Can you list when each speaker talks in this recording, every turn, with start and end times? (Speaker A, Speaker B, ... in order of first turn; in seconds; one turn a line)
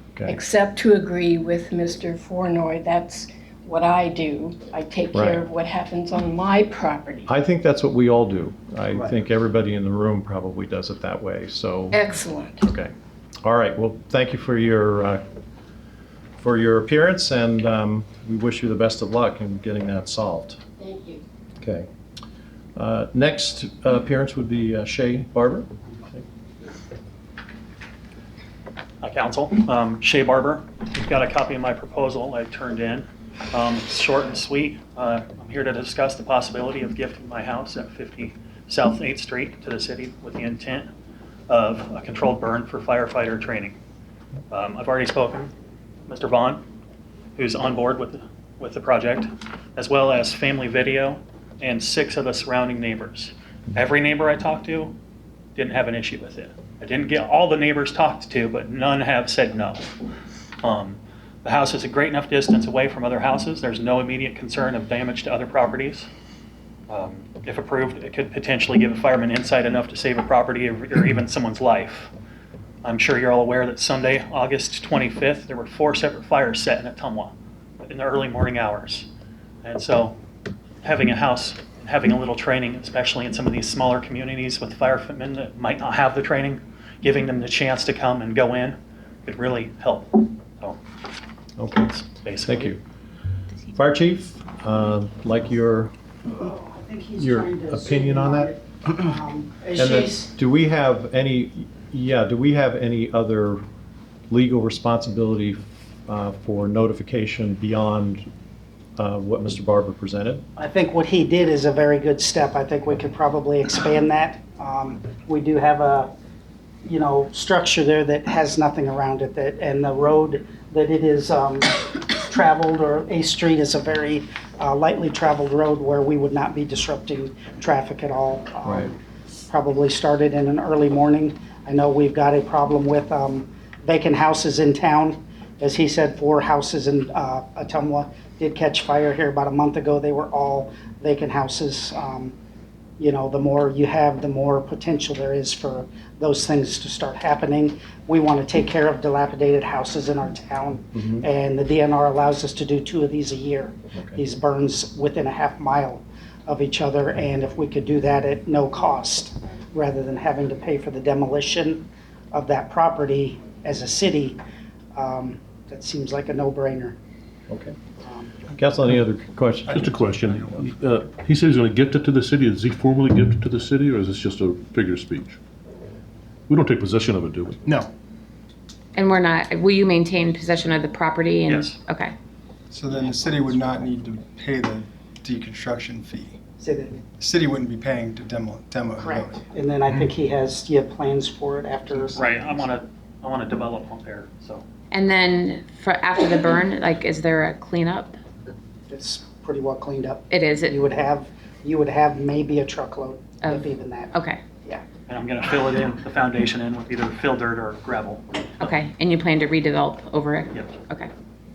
Speaker A: 0.3-7.3
Speaker B: 5.1-5.4
Speaker B: 7.3-12.0
Speaker A: 11.9-12.7
Speaker B: 12.6-12.9
Speaker B: 13.4-15.2
Speaker B: 16.4-20.6
Speaker A: 20.8-21.2
Speaker B: 21.6-21.9
Speaker B: 22.8-26.2
Speaker C: 29.0-40.9
Speaker C: 41.5-43.8
Speaker C: 44.5-45.5
Speaker C: 46.1-46.6
Speaker C: 47.4-54.9
Speaker C: 55.6-60.0
Speaker C: 60.6-66.1
Speaker C: 66.9-72.1
Speaker C: 72.8-79.1
Speaker C: 79.6-80.2
Speaker C: 80.8-90.8
Speaker B: 91.6-92.8
Speaker C: 91.9-92.8
Speaker B: 93.7-95.9
Speaker D: 96.3-100.3
Speaker B: 97.2-98.5
Speaker B: 99.8-103.6
Speaker B: 104.3-108.3
Speaker B: 109.0-110.4
Speaker D: 110.6-116.1
Speaker D: 116.8-129.0
Speaker B: 128.7-128.9
Speaker D: 129.5-142.3
Speaker D: 143.0-164.4
Speaker D: 164.9-167.0
Speaker B: 167.5-167.8
Speaker D: 168.0-168.4
Speaker B: 168.5-169.9
Speaker E: 169.7-170.7
Speaker F: 169.8-175.4
Speaker F: 176.5-177.7
Speaker G: 178.9-182.1
Speaker C: 181.5-181.8
Speaker E: 182.7-186.4
Speaker D: 186.6-187.0
Speaker E: 187.2-189.4
Speaker D: 189.0-192.7
Speaker C: 192.2-194.6
Speaker G: 194.9-198.2
Speaker D: 198.9-204.8
Speaker G: 200.3-200.8
Speaker G: 203.4-204.4
Speaker C: 205.1-208.7
Speaker G: 208.6-211.1